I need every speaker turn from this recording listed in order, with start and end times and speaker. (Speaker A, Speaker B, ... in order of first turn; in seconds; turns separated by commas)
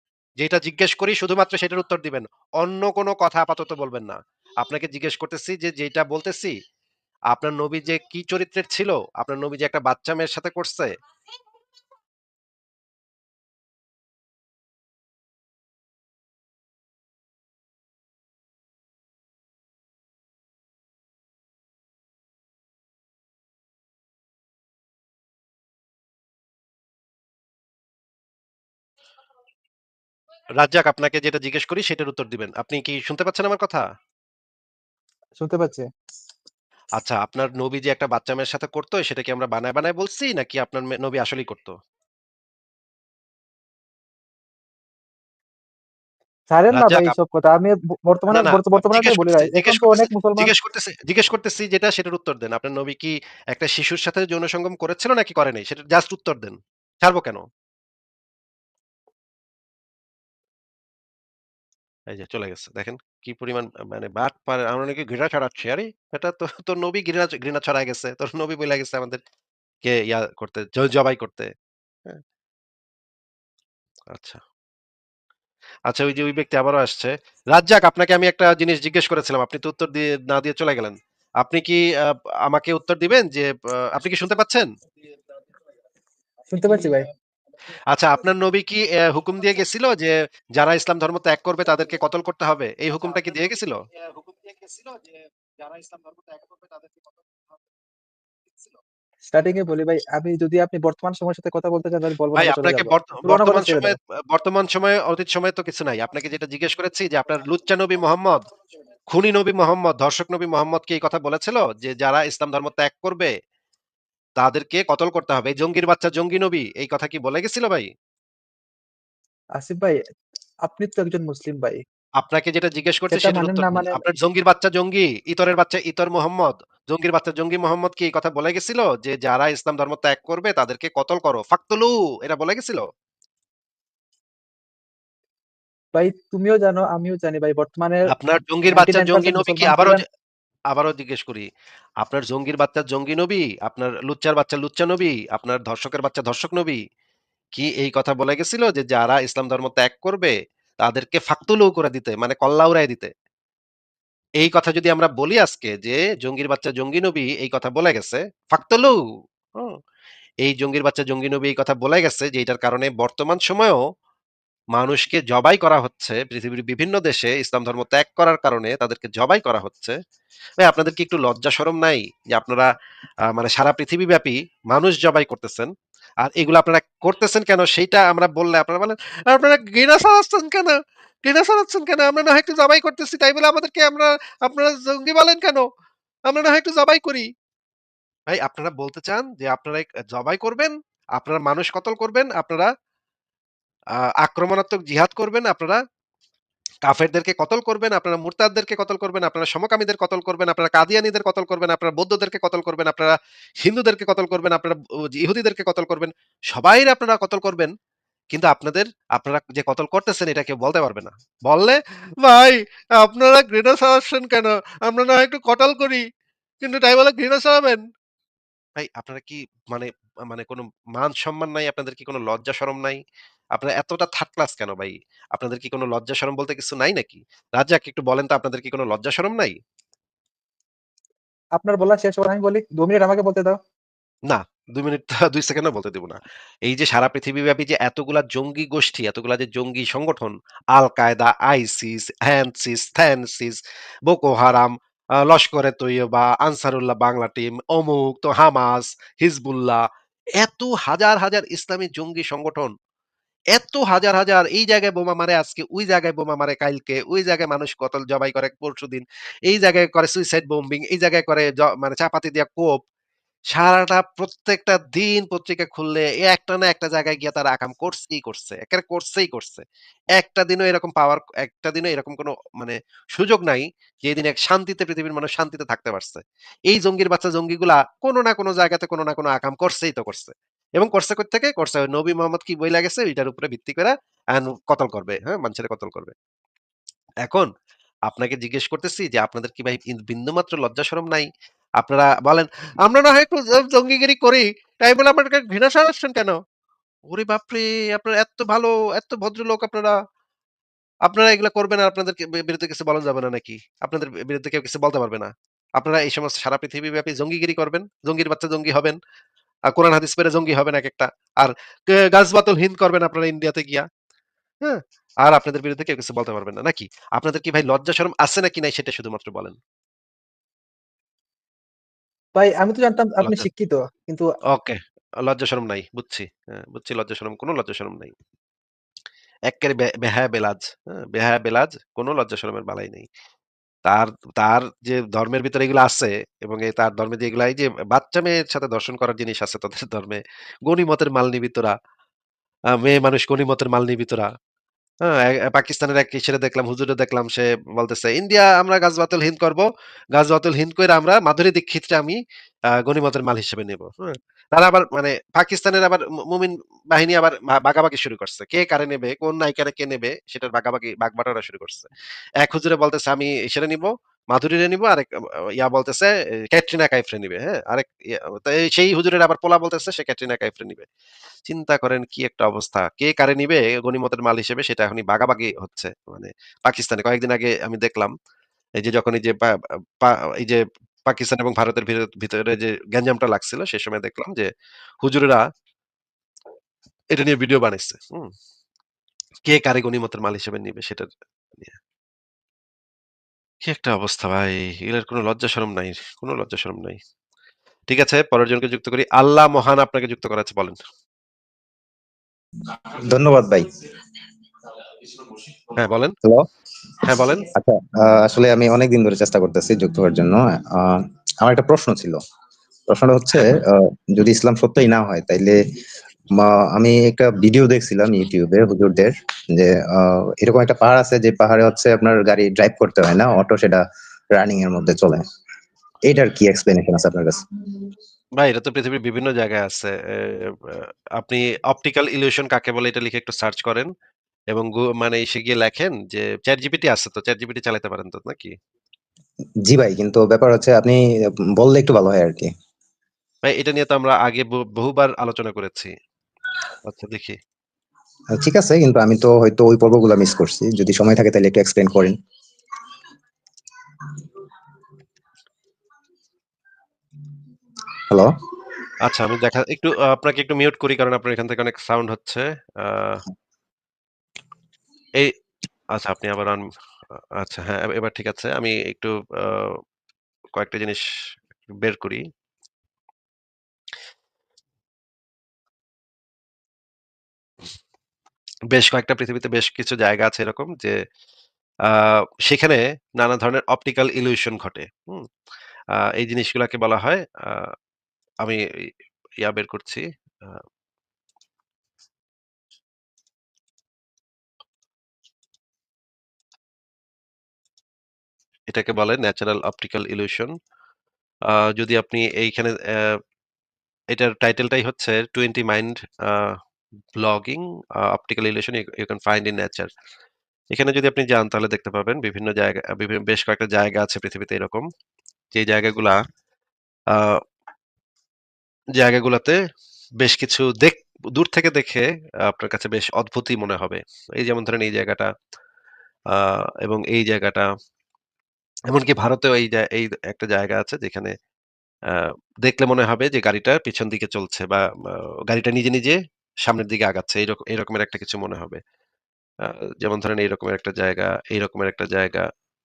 Speaker A: 0.4-6.6, Speaker A: 7.3-10.9, Speaker A: 30.6-33.8, Speaker B: 35.4-35.8, Speaker A: 36.9-41.8, Speaker B: 46.5-50.5, Speaker A: 46.7-47.1, Speaker A: 48.3-57.4, Speaker A: 62.1-69.2, Speaker A: 69.8-71.5, Speaker A: 74.1-74.4, Speaker A: 75.9-84.7, Speaker B: 86.5-87.1, Speaker A: 87.9-93.8, Speaker A: 95.6-97.0, Speaker B: 99.3-103.9, Speaker A: 102.3-108.4, Speaker A: 109.1-113.3, Speaker A: 114.4-117.9, Speaker B: 119.6-120.0, Speaker B: 120.7-121.8, Speaker A: 122.2-132.8, Speaker B: 123.1-124.0, Speaker B: 135.9-138.0, Speaker A: 138.1-140.0, Speaker B: 138.7-140.0, Speaker A: 140.7-141.5, Speaker A: 142.0-146.8, Speaker A: 147.5-153.1, Speaker A: 154.4-158.9, Speaker A: 160.4-163.8, Speaker A: 164.8-169.9, Speaker A: 170.6-172.7, Speaker A: 173.3-175.7, Speaker A: 176.2-185.6, Speaker A: 186.3-187.3, Speaker A: 188.3-192.7, Speaker A: 194.2-195.8, Speaker A: 196.8-207.7, Speaker A: 208.3-216.0, Speaker A: 216.6-217.8, Speaker A: 218.8-223.0, Speaker A: 223.5-229.5, Speaker B: 231.6-233.5, Speaker A: 234.3-249.8, Speaker A: 250.4-252.7, Speaker A: 253.5-262.8, Speaker A: 263.5-269.6, Speaker A: 270.1-286.1, Speaker A: 288.1-296.4, Speaker A: 297.1-299.9, Speaker A: 301.1-309.0, Speaker A: 309.7-313.9, Speaker A: 314.6-319.6, Speaker B: 322.4-324.2, Speaker A: 324.5-328.1, Speaker A: 329.5-333.1, Speaker A: 333.9-341.8, Speaker A: 342.7-344.3, Speaker A: 345.0-352.2, Speaker A: 352.8-361.9, Speaker A: 362.4-370.9, Speaker A: 371.5-378.1, Speaker A: 378.8-384.5, Speaker A: 385.0-385.4, Speaker A: 387.1-388.3, Speaker A: 389.5-391.8, Speaker A: 393.6-397.0, Speaker A: 397.9-400.8, Speaker C: 403.1-403.6, Speaker A: 405.8-406.1, Speaker A: 407.1-407.5, Speaker C: 407.5-412.2, Speaker C: 412.9-415.6, Speaker C: 416.4-423.8, Speaker C: 424.3-425.2, Speaker C: 426.1-427.4, Speaker A: 428.4-433.9, Speaker A: 434.5-438.5, Speaker C: 439.7-441.0, Speaker C: 441.6-442.5, Speaker A: 443.5-445.9, Speaker A: 446.9-447.4, Speaker C: 448.3-452.1, Speaker A: 459.0-463.2, Speaker A: 465.9-466.6, Speaker A: 467.4-469.8, Speaker A: 470.5-471.0, Speaker A: 471.7-472.2, Speaker A: 478.7-481.0, Speaker A: 481.9-485.2, Speaker A: 486.1-487.7, Speaker A: 489.4-490.6, Speaker A: 498.7-500.5, Speaker A: 501.5-503.1, Speaker A: 504.1-506.6, Speaker A: 507.2-509.9, Speaker A: 510.7-514.9, Speaker A: 515.5-516.2, Speaker A: 517.1-517.4, Speaker A: 519.0-519.6, Speaker A: 520.2-525.3, Speaker A: 526.3-527.7, Speaker A: 528.9-531.3, Speaker A: 532.1-538.8, Speaker A: 539.6-542.5